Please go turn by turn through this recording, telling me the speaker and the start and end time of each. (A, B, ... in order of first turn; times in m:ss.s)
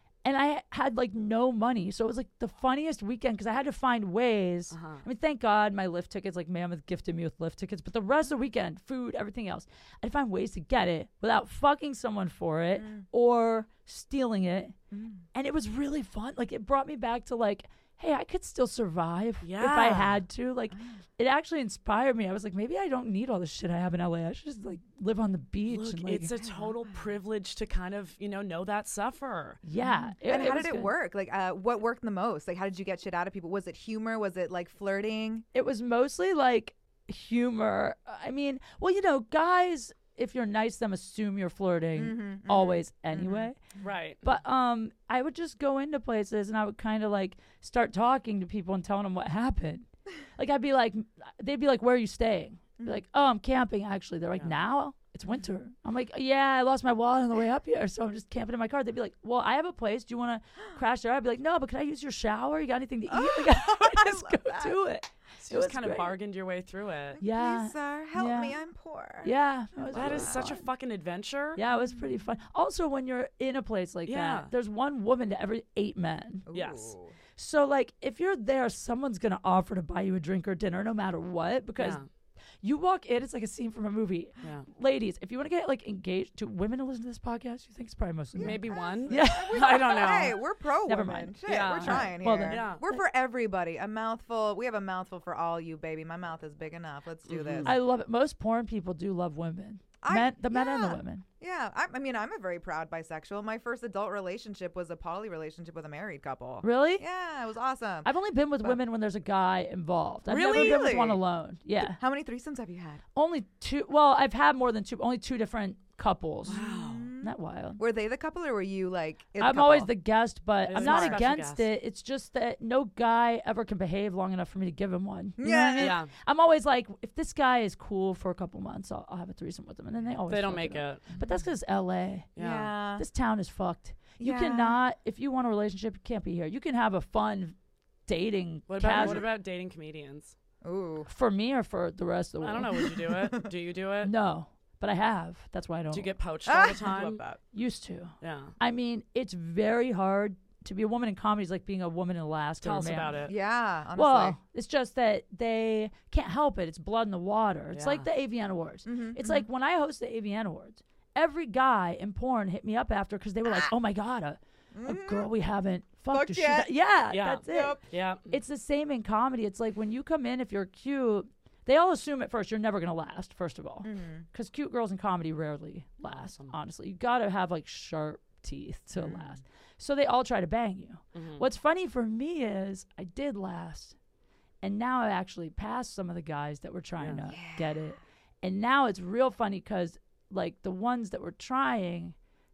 0:00.2-0:14.8 A
0:04.7-0:05.0 B
0:12.8-0:13.0 C
0:14.9-0:15.2 C
0:15.3-0:26.3 A
0:19.4-0:20.2 B
0:25.7-0:29.6 B
0:26.3-0:27.1 C
0:29.6-0:30.9 A
0:29.8-0:35.5 C
0:35.5-0:43.6 A
0:42.0-0:43.5 C
0:43.8-0:44.3 B
0:44.2-1:06.2 A
1:03.1-1:04.8 C
1:05.4-1:07.2 B
1:07.2-1:10.5 C
1:07.2-1:08.6 A
1:09.2-1:10.7 A
1:09.9-1:11.6 B
1:11.6-1:16.5 A
1:11.7-1:12.0 C
1:14.1-1:14.5 B
1:16.5-1:17.1 C
1:16.5-1:17.0 B
1:17.4-1:22.0 A
1:21.8-1:22.0 B
1:22.6-1:30.3 A
1:24.4-1:24.7 B
1:28.4-1:37.7 C
1:28.4-1:30.4 B
1:30.9-1:33.0 A
1:31.5-1:32.8 B
1:37.3-1:37.8 B
1:37.6-1:41.2 A
1:40.0-1:48.1 C
1:46.6-1:47.0 A
1:48.0-1:52.0 A
1:50.3-1:50.9 B
1:50.3-1:51.2 C
1:51.8-1:53.0 C
1:53.2-1:56.6 A
1:56.5-1:57.1 B
1:56.5-1:59.9 C
1:57.2-1:57.8 A
1:59.4-2:12.3 A
2:00.7-2:01.7 B
2:00.8-2:01.2 C
2:05.4-2:06.0 C
2:05.8-2:06.1 B
2:10.3-2:11.2 B
2:12.4-2:12.7 B
2:12.4-2:13.0 C
2:13.0-2:19.3 A
2:14.2-2:14.8 C
2:18.7-2:20.4 B
2:18.9-2:19.3 C
2:20.6-2:21.1 C
2:21.1-2:23.1 A
2:22.4-2:24.1 B
2:24.0-2:26.1 A
2:25.9-2:27.4 B
2:26.5-2:27.2 C
2:27.5-2:33.3 A
2:28.2-2:28.6 B
2:32.6-2:33.3 B
2:33.2-2:34.4 C
2:34.0-2:47.8 A
2:37.7-2:38.1 B
2:38.9-2:39.5 C
2:44.7-2:45.3 C
2:46.1-2:46.7 C
2:47.1-2:48.3 B
2:47.5-2:47.8 C
2:48.3-3:04.0 A
2:53.8-2:54.3 C
2:56.0-2:56.5 B
2:59.0-2:59.4 C
3:01.2-3:01.4 B
3:04.6-3:12.2 A
3:07.0-3:07.2 B
3:07.3-3:07.8 C